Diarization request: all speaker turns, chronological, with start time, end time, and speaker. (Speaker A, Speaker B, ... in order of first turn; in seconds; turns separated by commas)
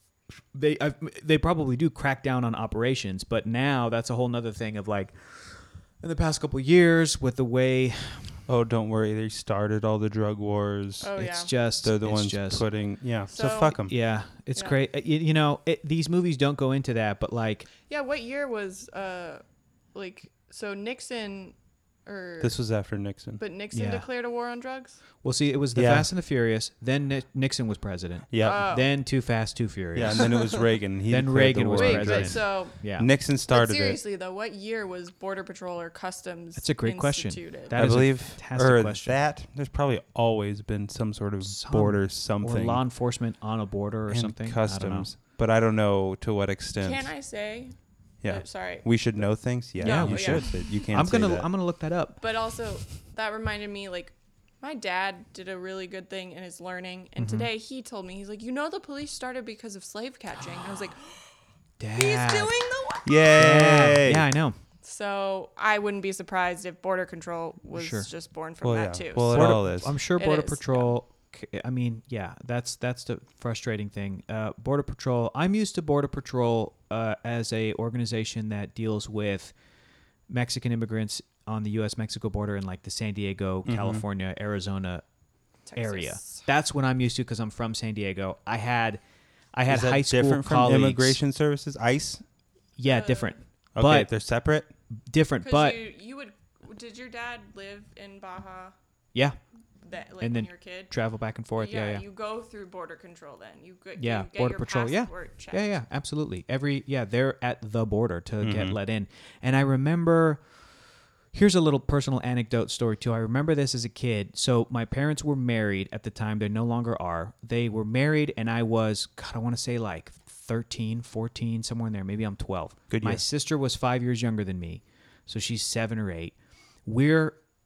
Speaker A: 0.5-8.3, Speaker B: 8.5-11.1, Speaker C: 11.0-11.5, Speaker A: 11.2-12.7, Speaker B: 11.8-13.9, Speaker C: 13.3-13.8, Speaker A: 13.9-17.7, Speaker C: 17.9-19.4, Speaker C: 19.9-21.6, Speaker C: 22.1-22.6, Speaker B: 22.4-23.4, Speaker C: 23.4-25.0, Speaker A: 23.7-24.1, Speaker A: 25.2-30.4, Speaker B: 25.8-26.1, Speaker B: 28.3-28.6, Speaker C: 28.4-28.9, Speaker B: 29.9-34.0, Speaker C: 30.2-30.5, Speaker A: 31.1-33.1, Speaker C: 31.7-32.8, Speaker C: 33.5-37.8, Speaker A: 36.6-39.2, Speaker B: 37.7-42.8, Speaker A: 41.4-45.1, Speaker B: 44.1-47.1, Speaker C: 46.8-47.8, Speaker B: 48.2-51.5, Speaker C: 48.3-48.9, Speaker C: 49.8-50.8, Speaker A: 49.8-52.2, Speaker C: 52.2-61.2, Speaker A: 57.2-57.5, Speaker A: 61.8-62.6, Speaker C: 62.0-63.4, Speaker B: 63.0-64.3, Speaker A: 63.4-64.6, Speaker C: 64.8-69.5, Speaker A: 67.7-68.1, Speaker B: 68.6-70.0, Speaker A: 69.3-79.5, Speaker C: 70.2-70.9, Speaker A: 80.3-85.0, Speaker B: 83.7-84.0, Speaker C: 85.7-86.5, Speaker A: 85.8-89.0, Speaker A: 89.5-91.2, Speaker B: 89.7-92.2, Speaker A: 92.8-94.1, Speaker C: 92.8-93.3, Speaker B: 93.8-94.7, Speaker A: 95.1-95.8, Speaker C: 95.4-98.7, Speaker C: 99.8-100.9, Speaker A: 100.2-102.0, Speaker C: 101.6-105.8, Speaker A: 104.0-110.4, Speaker B: 108.4-108.8, Speaker A: 111.3-127.4, Speaker B: 122.9-123.2